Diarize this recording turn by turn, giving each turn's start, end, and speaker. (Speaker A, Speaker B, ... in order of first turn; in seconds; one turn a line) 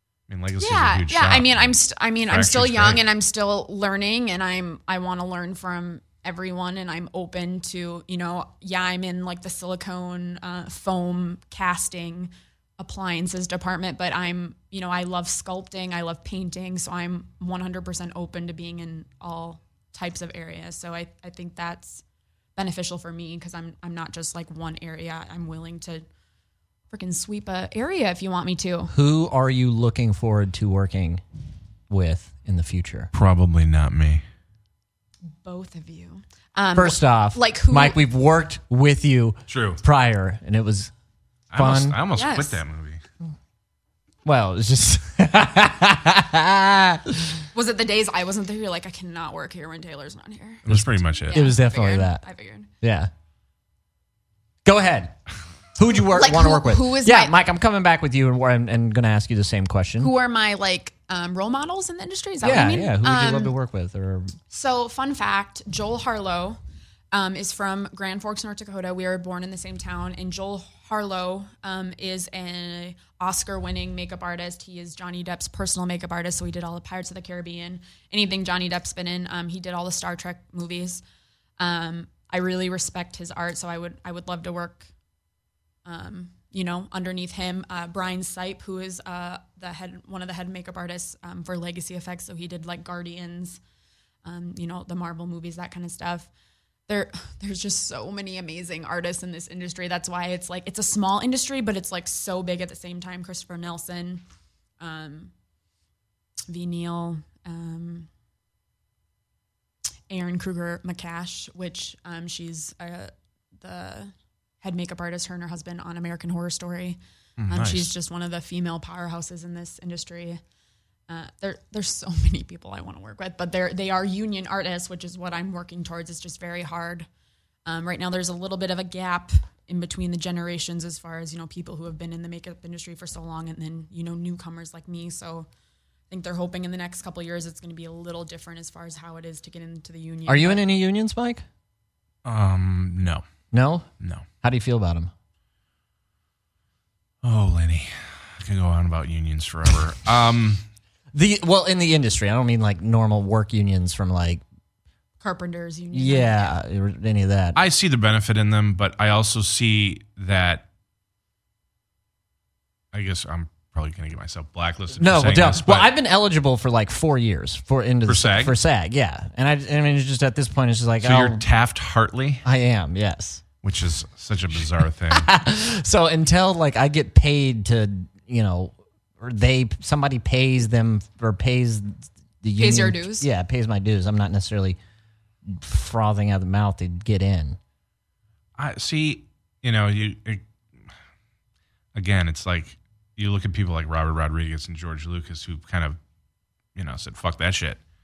Speaker A: 0.3-1.7
Speaker B: 0.6-22.0
Speaker A: 2.3-3.0
Speaker B: 22.6-26.0
Speaker B: 26.9-28.9
Speaker C: 28.9-31.2
Speaker C: 31.9-33.1
Speaker A: 33.1-34.2
Speaker B: 35.4-38.0
Speaker C: 36.7-40.9
Speaker A: 39.5-39.8
Speaker A: 41.5-43.0
Speaker C: 41.6-42.0
Speaker B: 42.1-42.6
Speaker C: 44.2-47.4
Speaker B: 47.5-50.7
Speaker A: 50.7-51.4
Speaker C: 50.7-52.2
Speaker B: 51.2-52.7
Speaker C: 52.8-53.1
Speaker C: 54.6-55.2
Speaker C: 55.8-60.1
Speaker B: 56.1-57.4
Speaker B: 60.0-63.5
Speaker C: 62.4-64.3
Speaker B: 64.5-66.6
Speaker B: 67.1-81.0
Speaker B: 81.6-84.9
Speaker B: 85.9-93.6
Speaker B: 94.2-96.3
Speaker B: 96.9-104.2
Speaker B: 104.8-105.3
Speaker B: 106.5-108.1
Speaker B: 110.1-120.4
Speaker A: 117.4-117.9
Speaker B: 121.1-127.1
Speaker B: 127.6-135.5
Speaker B: 136.1-140.6
Speaker C: 140.3-141.4
Speaker A: 142.2-143.2
Speaker C: 143.5-143.9
Speaker A: 144.0-144.3
Speaker C: 144.4-145.1
Speaker A: 147.2-150.6
Speaker C: 151.1-154.4
Speaker B: 155.2-156.5
Speaker C: 155.9-157.6
Speaker A: 157.6-160.6
Speaker A: 162.9-165.9
Speaker C: 164.9-171.4
Speaker A: 168.1-168.6
Speaker A: 171.0-172.4
Speaker C: 172.4-173.4
Speaker A: 173.6-175.3
Speaker C: 175.1-184.8
Speaker B: 182.6-183.3
Speaker C: 185.5-187.6
Speaker A: 188.6-190.4
Speaker A: 191.9-196.0
Speaker A: 196.7-197.8